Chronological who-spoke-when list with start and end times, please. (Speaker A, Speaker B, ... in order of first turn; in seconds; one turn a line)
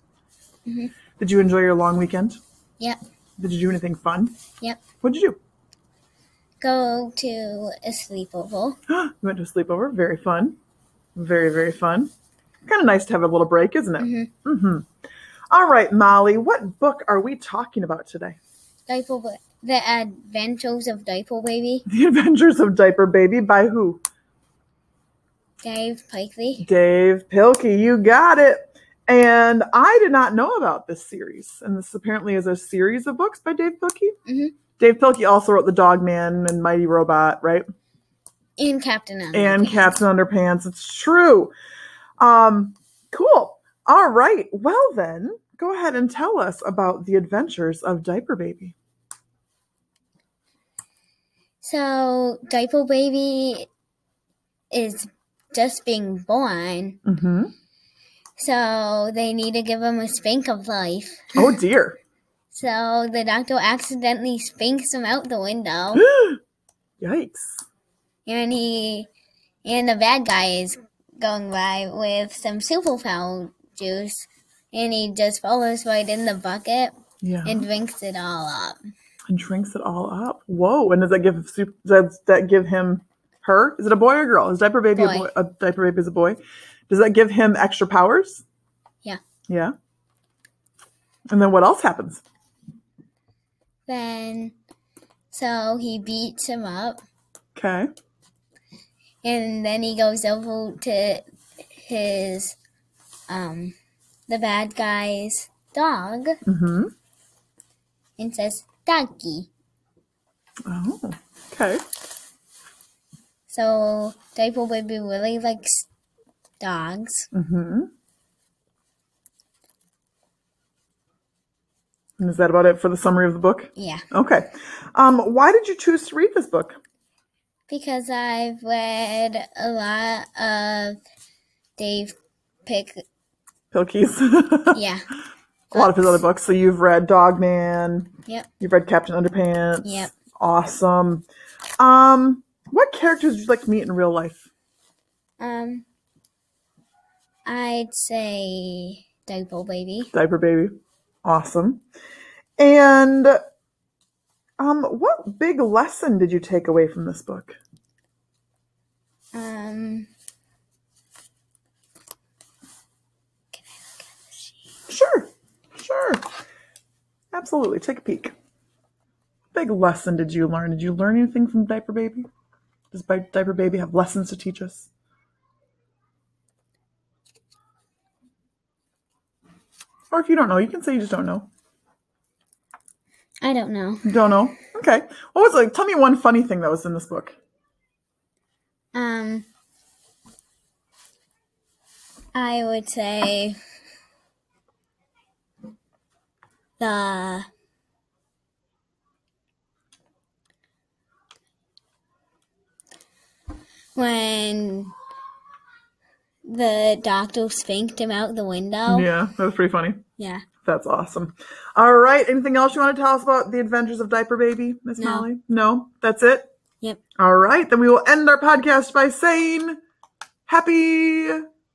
Speaker A: 0.7-1.0
Speaker B: 1.2-2.4
Speaker B: 3.4-4.3
Speaker B: 5.0-5.4
Speaker A: 6.6-8.8
Speaker B: 8.9-10.6
Speaker B: 11.2-12.1
Speaker B: 12.7-14.9
Speaker A: 14.0-14.3
Speaker B: 15.5-18.4
Speaker A: 18.9-21.9
Speaker B: 21.9-24.0
Speaker A: 25.6-26.6
Speaker B: 26.6-34.1
Speaker A: 34.2-34.5
Speaker B: 34.8-37.6
Speaker A: 38.6-39.9
Speaker B: 39.3-41.5
Speaker B: 42.2-48.7
Speaker A: 51.6-53.7
Speaker A: 54.7-57.0
Speaker B: 57.0-57.5
Speaker A: 58.4-61.4
Speaker B: 61.3-62.0
Speaker A: 62.5-66.0
Speaker B: 65.9-66.4
Speaker B: 67.0-67.6
Speaker A: 68.2-69.1
Speaker A: 69.6-78.8
Speaker B: 77.2-77.7
Speaker B: 79.3-88.4
Speaker A: 84.9-85.3
Speaker B: 89.5-89.7
Speaker B: 91.3-92.2
Speaker A: 93.9-94.5
Speaker A: 95.3-97.0
Speaker B: 97.5-97.9
Speaker A: 99.2-102.6
Speaker A: 103.3-103.7
Speaker A: 104.3-106.4
Speaker B: 106.5-106.9
Speaker A: 108.2-109.5
Speaker B: 110.7-111.8
Speaker A: 113.5-115.9
Speaker A: 116.6-117.3
Speaker B: 117.3-117.9
Speaker B: 122.2-126.8
Speaker A: 123.8-124.1
Speaker A: 127.7-131.0
Speaker A: 131.8-133.0
Speaker B: 133.7-134.8
Speaker A: 134.7-135.0
Speaker A: 135.7-136.2
Speaker B: 135.7-141.2
Speaker A: 139.8-140.1
Speaker B: 141.8-144.5
Speaker A: 145.4-145.8
Speaker A: 147.4-150.1
Speaker B: 150.1-151.8
Speaker B: 152.6-153.4
Speaker B: 154.6-157.6
Speaker A: 159.3-160.1
Speaker A: 163.5-164.5
Speaker B: 164.9-166.2
Speaker B: 167.3-168.3
Speaker B: 169.5-172.3
Speaker B: 172.9-174.9
Speaker B: 180.1-181.5
Speaker A: 183.4-184.0
Speaker B: 184.0-187.3
Speaker A: 188.9-189.5
Speaker A: 192.3-193.6
Speaker A: 196.8-197.4
Speaker A: 203.9-204.9
Speaker A: 206.4-209.1
Speaker B: 208.9-210.0
Speaker A: 210.2-210.4
Speaker B: 210.6-216.5
Speaker A: 215.0-215.3
Speaker B: 217.2-219.8
Speaker B: 220.5-221.4